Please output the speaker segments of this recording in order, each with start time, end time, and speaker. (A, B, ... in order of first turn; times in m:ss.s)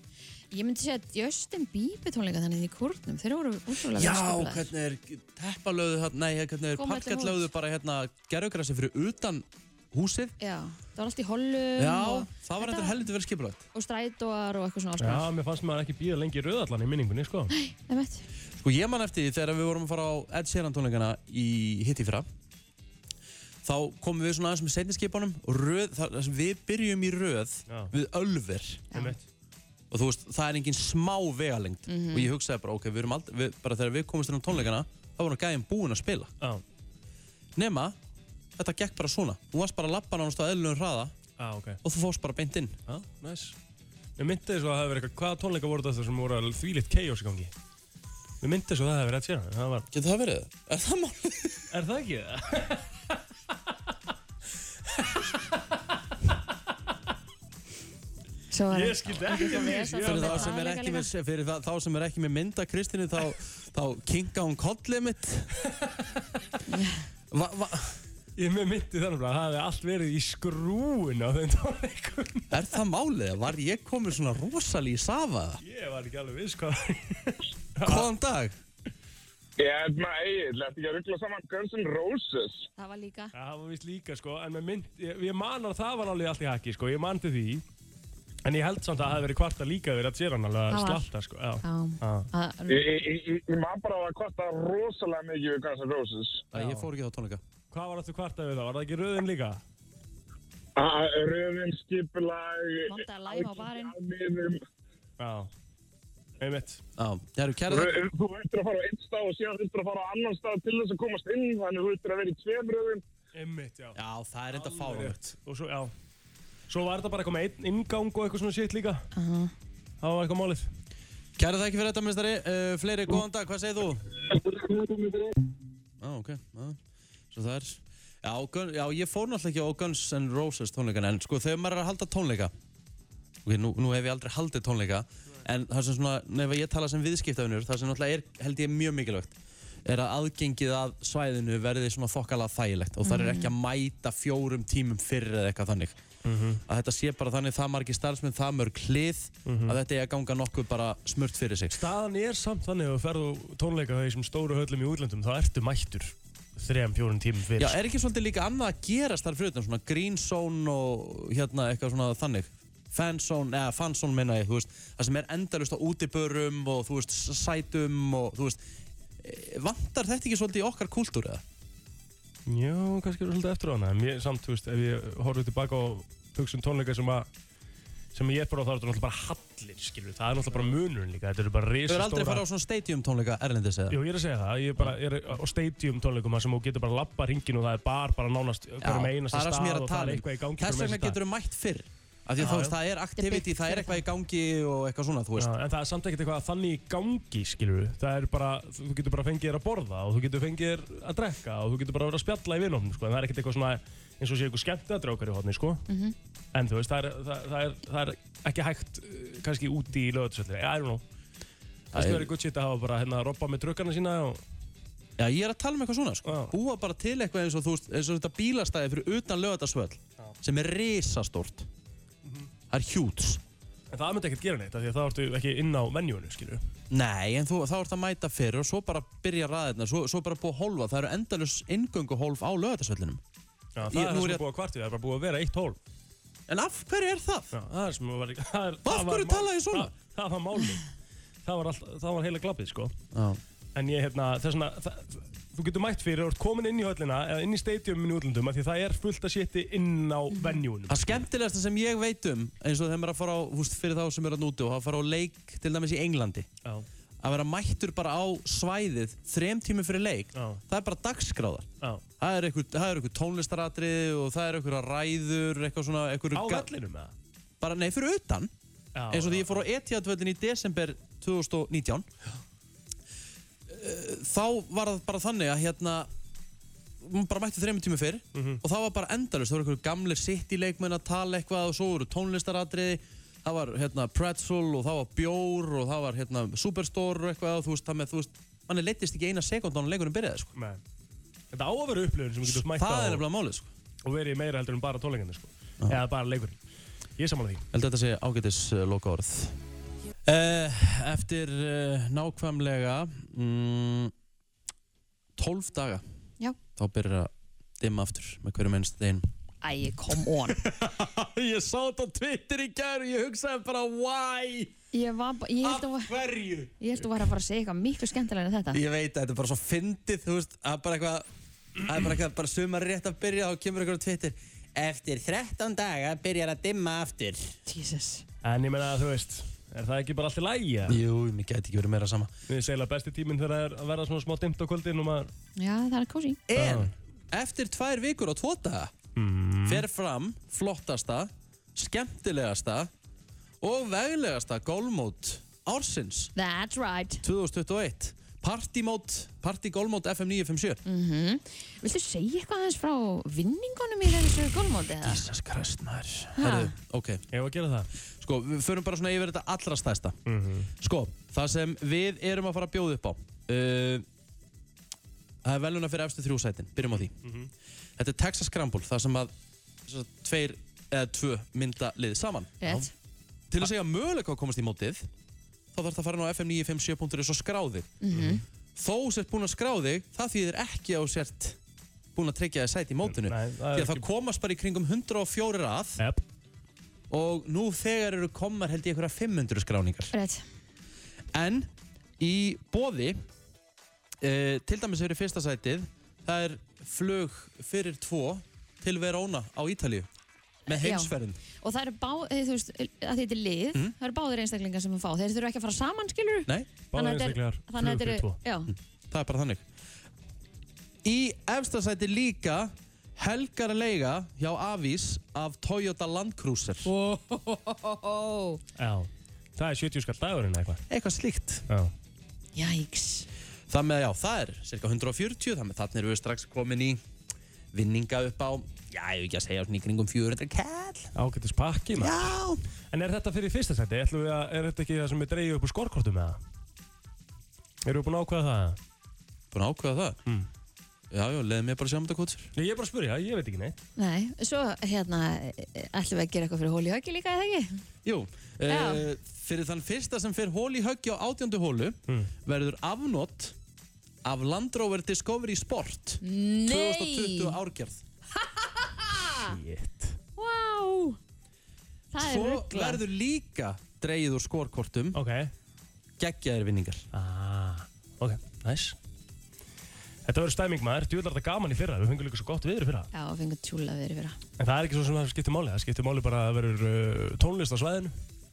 0:00.5-0:04.7 A
0:03.8-0:10.4 B
0:06.8-0:07.4 A
0:10.4-0:13.0 A
0:11.8-0:13.6 B
0:13.7-0:15.3 A
0:15.0-0:17.5 C
0:17.5-0:18.2 A
0:18.6-0:22.3 B
0:23.6-0:28.8 B
0:28.9-0:29.2 A
0:28.9-0:29.2 C
0:29.9-0:36.3 B
0:31.9-0:32.3 A
0:37.6-0:38.0 B
0:38.6-0:41.2 B
0:41.4-0:41.8 C
0:41.8-0:42.8 B
0:42.9-0:43.6 C
0:44.2-0:47.5 C
0:48.4-0:49.9 C
0:49.9-0:51.7 B
0:51.7-0:53.2 C
0:55.0-0:55.3 C
0:58.5-1:01.1 A
0:58.7-1:00.5 C
1:00.0-1:05.6 B
1:06.7-1:07.0 A
1:07.3-1:08.0 B
1:08.4-1:12.5 C
1:12.5-1:15.6 B
1:15.6-1:18.1 C
1:17.8-1:18.6 B
1:19.6-1:22.7 D
1:22.8-1:23.3 A
1:23.3-1:27.6 C
1:28.4-1:32.3 C
1:30.7-1:31.1 A
1:31.6-1:32.9 A
1:32.7-1:36.5 D
1:36.5-1:37.4 B
1:36.5-1:36.9 C
1:37.7-1:39.6 C
1:40.8-1:44.6 D
1:42.9-1:43.9 A
1:45.2-1:45.5 C
1:46.4-1:46.8 C
1:47.0-1:48.0 B
1:47.7-1:53.0 D
1:53.3-1:54.0 C
1:54.0-1:55.3 B
1:54.5-1:55.9 C
1:56.7-1:59.1 C
1:59.1-1:59.5 A
2:00.0-2:00.7 C
2:01.4-2:04.1 B
2:06.0-2:06.8 B
2:07.3-2:12.5 B
2:13.4-2:26.0 B
2:23.0-2:23.5 A
2:26.2-2:26.6 C
2:26.7-2:31.8 B
2:29.5-2:29.8 C
2:31.7-2:37.8 C
2:37.6-2:48.6 B
2:49.2-2:51.4 B
2:52.5-2:57.3 C
2:58.1-3:02.4 C
3:01.9-3:04.0 B
3:03.9-3:11.2 C
3:08.8-3:15.5 B
3:12.4-3:12.7 C
3:13.2-3:14.0 A
3:15.4-3:25.8 C
3:25.9-3:26.2 A
3:26.5-3:31.0 C
3:31.9-3:32.3 B
3:31.9-3:34.4 C
3:35.2-3:41.7 B
3:36.3-3:36.5 C
3:42.7-3:43.4 B
3:43.9-3:46.6 C
3:46.9-3:53.2 B
3:53.8-3:55.8 C
3:53.8-3:54.4 B
3:56.5-3:57.5 B
3:57.5-4:00.9 C
3:58.8-3:59.9 B
4:01.4-4:03.0 C
4:03.1-4:03.4 B
4:03.8-4:11.2 C
4:10.3-4:10.6 A
4:10.9-4:16.5 B
4:17.2-4:21.7 B
4:20.4-4:20.6 C
4:22.2-4:26.7 B
4:26.3-4:27.1 C
4:27.6-4:28.5 B
4:29.0-4:29.6 C
4:29.1-4:32.1 B
4:33.7-4:36.1 B
4:37.0-4:50.5 B
4:38.4-4:38.6 C
4:50.6-4:50.8 C
4:51.5-4:53.2 C
4:52.4-4:53.7 B
4:54.0-4:56.6 C
4:57.2-4:57.6 C
4:57.7-4:59.6 B
5:00.2-5:04.1 B
5:05.4-5:06.0 B
5:06.8-5:09.3 B
5:09.6-5:10.6 A
5:10.5-5:14.7 B
5:14.9-5:16.1 A
5:15.6-5:16.8 B
5:16.8-5:18.8 A
5:18.7-5:27.6 B
5:27.7-5:28.2 A
5:28.4-5:31.0 C
5:30.9-5:32.4 B
5:32.5-5:35.3 C
5:35.6-5:36.4 A
5:36.5-5:38.9 B
5:36.6-5:36.9 C
5:39.2-5:39.8 C
5:39.7-5:42.9 B
5:43.6-5:46.3 B
5:46.4-5:47.2 A
5:47.2-5:50.8 B
5:50.8-5:55.3 A
5:55.0-5:57.2 B
5:56.4-5:56.7 A
5:57.3-5:57.9 C
5:58.2-6:00.2 B
6:00.3-6:00.7 C
6:00.8-6:04.1 B
6:05.4-6:07.1 B
6:07.0-6:07.5 C
6:08.0-6:09.3 B
6:09.8-6:12.9 B
6:12.6-6:12.9 A
6:13.5-6:15.1 B
6:15.7-6:21.6 B
6:18.0-6:18.4 A
6:22.2-6:26.0 B
6:23.1-6:24.1 C
6:27.1-6:30.1 B
6:30.1-6:30.4 A
6:31.3-6:33.2 B
6:34.2-6:40.1 B
6:40.7-6:41.4 B
6:40.7-6:48.7 A
6:46.9-6:48.4 C
6:49.1-6:49.6 B
6:51.0-6:56.9 B
6:56.9-6:58.6 A
6:58.8-7:00.8 C
7:00.9-7:01.7 B
7:02.6-7:03.3 A
7:03.7-7:07.0 B
7:07.7-7:11.1 B
7:11.2-7:12.4 C
7:12.0-7:12.6 B
7:12.9-7:16.4 C
7:17.9-7:18.8 C
7:19.5-7:20.2 B
7:21.1-7:22.5 B
7:22.6-7:23.8 C
7:24.0-7:27.8 A
7:28.0-7:33.6 B
7:28.7-7:29.0 A
7:34.2-7:38.0 B
7:36.2-7:37.6 A
7:38.4-7:39.5 A
7:39.4-7:40.2 C
7:40.4-7:41.2 A
7:42.1-7:43.0 A
7:42.2-7:45.2 B
7:45.2-7:45.5 C
7:46.2-7:47.1 B
7:47.1-7:49.0 C
7:50.3-7:53.1 C
7:53.1-7:54.4 A
7:54.6-7:58.1 C